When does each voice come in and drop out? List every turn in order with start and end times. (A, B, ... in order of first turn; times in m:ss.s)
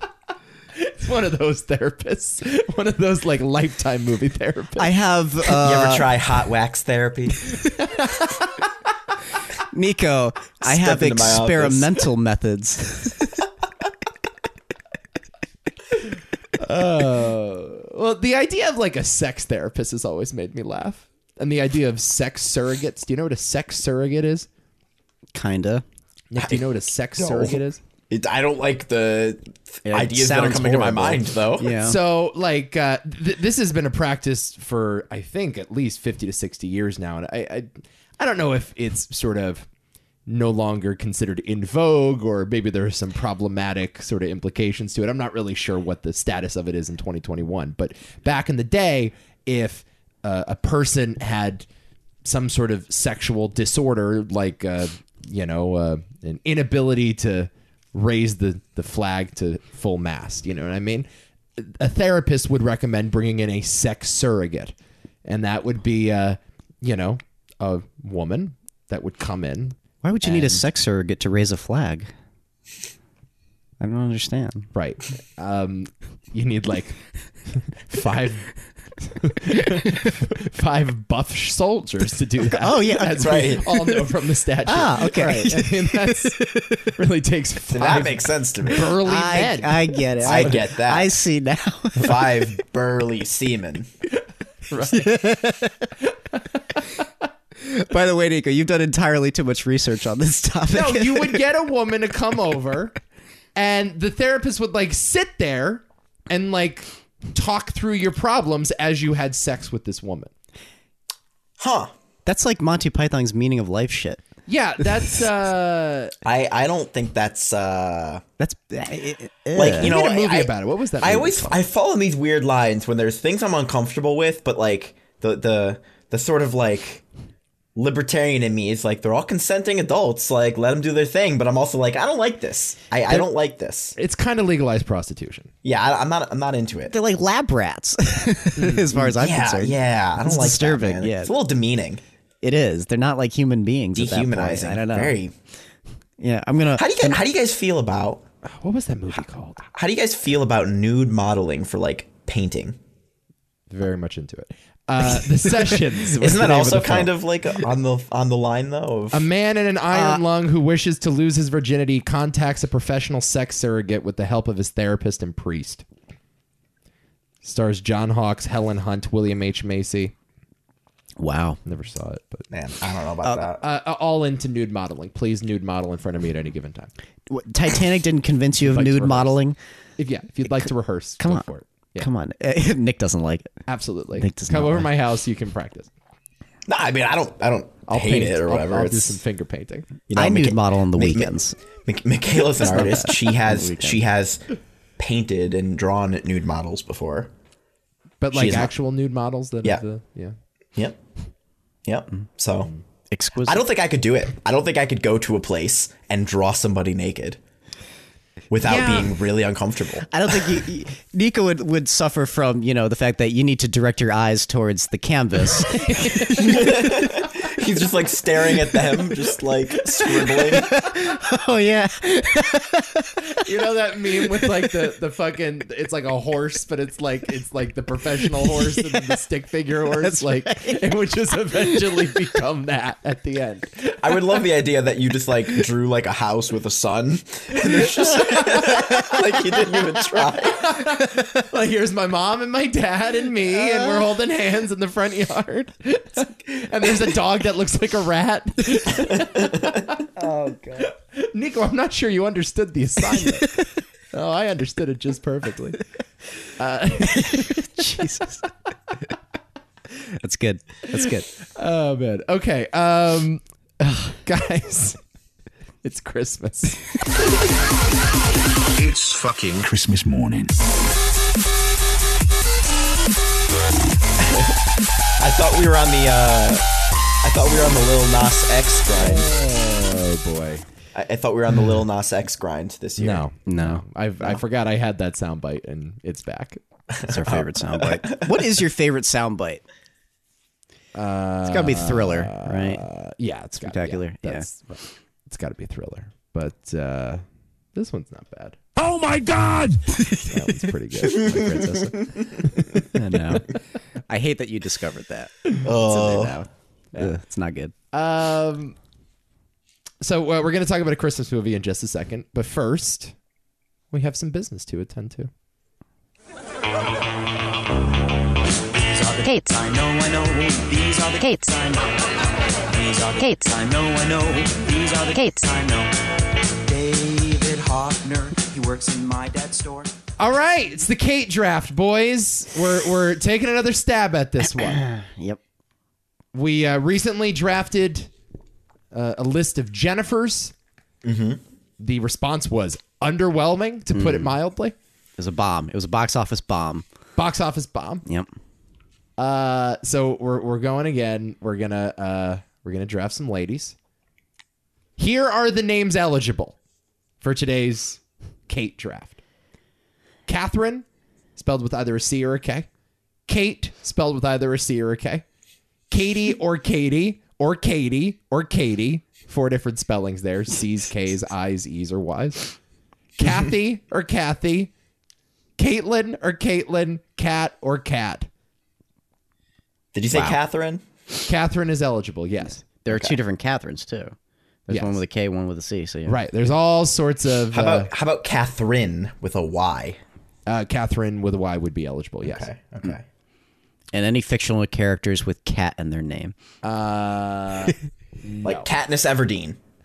0:00.8-0:04.9 A
0:04.8-0:06.1 B
0:05.4-0:07.5 C
0:07.8-0:08.5 A
0:09.7-0:13.4 B
0:10.6-0:12.0 C
0:16.6-0:24.5 A
0:25.3-0:25.8 B
0:26.3-0:27.8 A
0:26.4-0:26.6 C
0:27.2-0:31.8 C
0:29.8-0:32.0 B
0:31.8-0:39.6 A
0:40.3-0:51.7 A
0:52.2-1:01.0 A
1:01.6-1:04.7 A
1:05.2-1:10.6 A
1:10.0-1:12.1 B
1:13.8-1:14.7 B
1:14.7-1:18.5 A
1:19.1-1:30.6 A
1:22.5-1:26.9 B
1:23.2-1:23.6 C
1:27.7-1:29.0 C
1:28.7-1:32.5 B
1:30.2-1:31.2 C
1:32.0-1:33.9 C
1:34.7-1:35.4 A
1:34.9-1:35.9 B
1:37.6-1:41.4 B
1:40.7-1:42.9 A
1:43.6-1:50.3 A
1:51.6-1:51.9 C
1:52.2-1:54.2 B
1:54.5-1:56.1 A
1:56.2-1:58.2 C
1:58.4-1:59.9 B
1:59.5-2:07.0 C
1:59.8-2:01.6 A
2:07.7-2:13.9 C
2:14.0-2:15.5 A
2:15.6-2:16.9 C
2:16.9-2:21.3 B
2:18.6-2:19.2 A
2:19.2-2:22.0 C
2:22.4-2:25.2 B
2:23.9-2:25.3 C
2:26.2-2:27.2 B
2:26.8-2:28.2 C
2:28.4-2:29.6 A
2:29.7-2:32.8 C
2:33.7-2:37.1 A
2:36.1-2:39.3 C
2:39.1-2:45.8 A
2:39.9-2:40.2 B
2:47.4-2:50.1 A
2:51.2-2:51.6 B
2:51.6-2:52.5 A
2:52.5-2:53.6 C
2:53.6-2:56.9 A
2:57.3-2:59.6 B
2:58.6-2:59.3 A
3:00.0-3:02.1 A
3:01.2-3:01.4 B
3:02.0-3:03.5 B
3:03.7-3:05.9 A
3:04.2-3:04.9 B
3:06.7-3:09.2 C
3:07.9-3:09.9 A
3:10.1-3:11.3 C
3:10.1-3:11.6 B
3:11.8-3:14.4 C
3:12.6-3:14.0 B
3:15.0-3:17.3 C
3:18.2-3:20.3 A
3:18.3-3:18.7 C
3:21.8-3:22.7 C
3:23.1-3:23.6 B
3:23.4-3:27.4 C
3:28.5-3:30.4 C
3:28.6-3:29.1 A
3:30.1-3:37.0 B
3:35.7-3:36.9 A
3:36.4-3:40.8 C
3:38.7-3:39.1 B
3:40.0-3:43.4 B
3:43.4-3:54.0 A
3:44.2-3:44.6 B
3:48.4-3:49.1 B
3:49.9-3:50.8 B
3:51.5-3:52.2 B
3:54.0-4:00.7 C
3:58.1-3:58.9 A
3:58.2-4:00.2 B
4:00.5-4:10.1 A
4:00.8-4:01.3 B
4:03.6-4:03.9 B
4:09.4-4:09.8 C
4:10.2-4:10.8 B
4:10.8-4:13.6 A
4:13.2-4:13.6 B
4:14.1-4:15.8 A
4:16.6-4:18.1 A
4:17.0-4:18.4 B
4:20.2-4:21.3 B
4:21.0-4:25.0 A
4:25.8-4:26.8 A
4:28.7-4:30.5 D
4:34.2-4:34.6 C
4:35.2-4:36.6 C
4:37.2-4:39.3 C
4:39.0-4:40.7 A
4:40.9-4:43.2 C
4:43.0-4:46.6 A
4:43.4-4:43.8 B
4:46.9-4:48.6 C
4:47.1-4:49.6 B
4:50.9-4:57.2 A
4:51.5-4:52.8 B
4:53.6-4:54.4 B
4:57.7-4:58.6 A
4:58.8-4:59.9 D
4:59.9-5:00.2 B
5:00.2-5:03.4 A
5:01.1-5:01.9 C
5:02.9-5:03.6 B
5:04.1-5:07.7 B
5:05.6-5:06.4 C
5:07.9-5:08.8 A
5:10.0-5:13.2 A
5:13.9-5:15.3 A
5:18.7-5:22.0 E
5:22.6-5:26.0 E
5:26.6-5:29.9 E
5:30.2-5:34.8 A
5:34.5-5:35.4 B
5:36.3-5:38.1 A
5:38.9-5:40.5 A
5:41.0-5:41.4 C
5:41.8-5:44.7 A
5:43.9-5:44.3 B
5:45.2-5:46.8 B
5:47.2-5:48.0 A
5:49.2-5:53.7 A
5:55.0-5:56.6 A
5:57.2-5:59.2 A
6:00.3-6:00.8 A
6:01.4-6:02.7 A
6:03.3-6:05.2 A
6:05.9-6:12.5 A
6:13.2-6:14.7 A
6:15.6-6:18.3 A
6:19.9-6:20.8 C
6:20.1-6:20.4 B
6:21.2-6:22.6 A
6:22.6-6:24.1 B
6:22.9-6:23.2 C
6:24.7-6:26.2 B
6:24.7-6:25.0 A
6:26.0-6:27.9 A
6:27.5-6:30.0 C
6:30.5-6:32.5 A
6:32.2-6:33.0 C
6:33.9-6:36.3 B
6:36.6-6:38.7 A
6:38.4-6:39.6 C